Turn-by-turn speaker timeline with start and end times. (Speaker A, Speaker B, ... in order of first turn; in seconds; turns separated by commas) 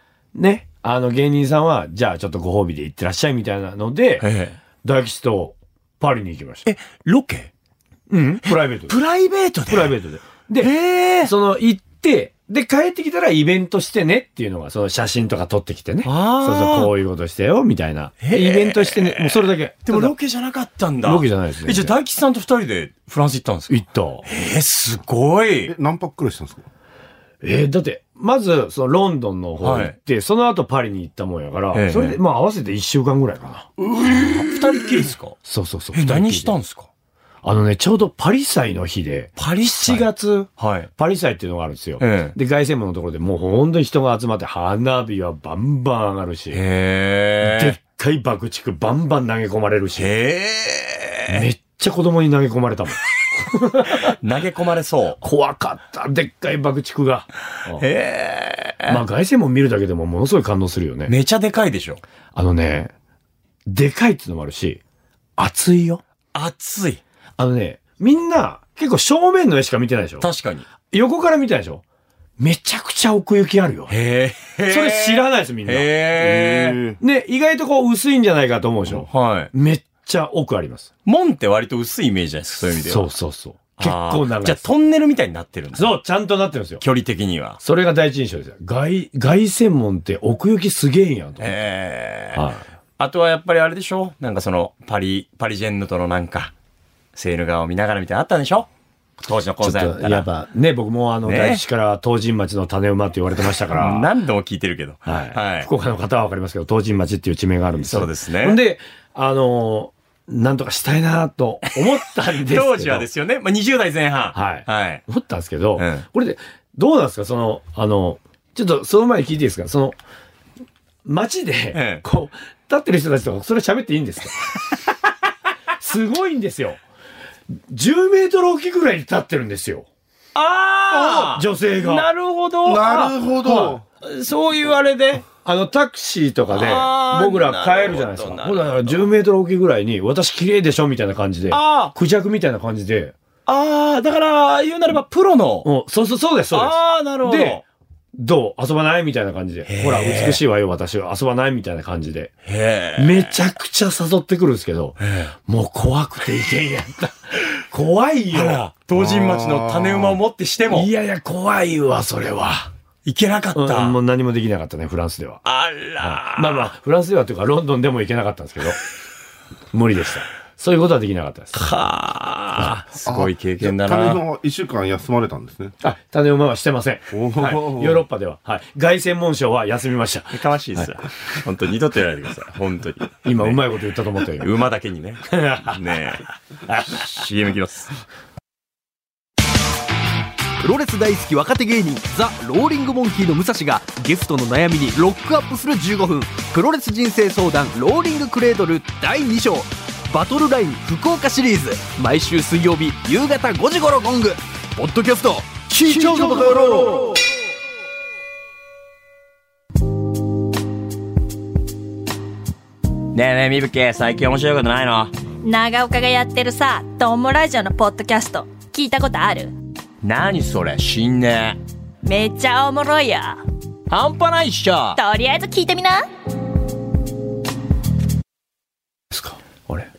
Speaker A: 0.3-4.3, Speaker B: 4.2-4.6, Speaker A: 4.8-6.6, Speaker B: 6.7-7.5, Speaker A: 8.1-9.0, Speaker B: 8.5-9.9, Speaker A: 9.7-10.7, Speaker B: 10.6-11.3, Speaker A: 11.2-20.1, Speaker B: 16.1-16.9, Speaker B: 18.2-25.7, Speaker A: 21.0-21.9, Speaker A: 23.7-24.2, Speaker C: 25.7-26.6, Speaker A: 27.4-33.7, Speaker B: 29.6-29.9, Speaker B: 31.7-32.2, Speaker C: 34.0-34.3, Speaker B: 34.0-35.4, Speaker A: 35.5-36.5, Speaker B: 35.9-36.9, Speaker A: 37.4-46.6, Speaker B: 39.4-40.1, Speaker B: 40.6-40.9, Speaker B: 42.0-42.4, Speaker B: 46.5-47.8, Speaker A: 47.4-50.1, Speaker B: 50.0-51.5, Speaker A: 51.3-54.2, Speaker B: 54.1-55.2, Speaker A: 55.2-57.9, Speaker B: 57.8-59.0, Speaker A: 58.9-61.1, Speaker B: 61.1-62.0, Speaker A: 62.4-62.9, Speaker A: 63.7-64.8, Speaker A: 65.4-66.0, Speaker B: 66.3-67.0, Speaker A: 67.4-70.3, Speaker B: 70.2-70.7, Speaker A: 70.9-71.8, Speaker A: 72.4-74.0, Speaker B: 73.9-76.8, Speaker A: 74.7-75.9, Speaker C: 76.2-77.0, Speaker A: 77.0-80.9, Speaker B: 78.9-79.5, Speaker B: 81.0-83.1, Speaker A: 82.8-84.7, Speaker B: 83.8-86.0, Speaker A: 85.7-86.8, Speaker B: 86.8-87.6, Speaker A: 87.6-91.5, Speaker B: 91.4-92.5, Speaker A: 92.3-92.7, Speaker B: 93.0-96.5, Speaker B: 97.2-98.7, Speaker B: 99.2-100.3, Speaker A: 99.6-104.1, Speaker B: 101.2-101.6, Speaker B: 103.7-105.7, Speaker A: 105.1-113.1, Speaker B: 107.8-108.6, Speaker B: 112.3-115.0, Speaker A: 114.3-120.0, Speaker B: 115.8-116.0, Speaker A: 121.0-124.6, Speaker B: 121.7-122.0, Speaker A: 125.8-126.8, Speaker A: 127.7-129.9, Speaker B: 130.3-133.5, Speaker A: 130.9-132.1, Speaker C: 132.6-133.8, Speaker A: 133.5-133.7, Speaker B: 134.0-135.3, Speaker A: 135.4-143.2, Speaker B: 136.5-139.1, Speaker B: 141.5-141.9, Speaker B: 143.5-145.7, Speaker A: 145.6-147.6, Speaker B: 146.5-147.6, Speaker A: 148.2-152.3, Speaker B: 149.7-150.4, Speaker B: 152.5-153.4, Speaker A: 153.0-158.6, Speaker B: 155.0-155.3, Speaker B: 158.3-160.9, Speaker C: 158.9-160.2, Speaker A: 160.7-162.7, Speaker B: 163.1-164.0, Speaker A: 163.5-165.4, Speaker B: 165.4-166.7, Speaker A: 166.0-168.8, Speaker A: 169.7-171.7, Speaker B: 171.5-174.2, Speaker A: 172.6-172.8, Speaker C: 173.1-175.7, Speaker A: 175.8-180.9, Speaker C: 177.1-178.0, Speaker B: 180.3-187.9, Speaker A: 183.2-184.5, Speaker A: 185.3-185.8, Speaker D: 190.6-207.2, Speaker B: 205.5-206.5, Speaker B: 213.1-215.1, Speaker E: 215.4-219.5, Speaker B: 220.0-221.6, Speaker E: 222.0-223.4, Speaker B: 223.9-225.0, Speaker E: 224.9-226.1, Speaker A: 229.1-229.9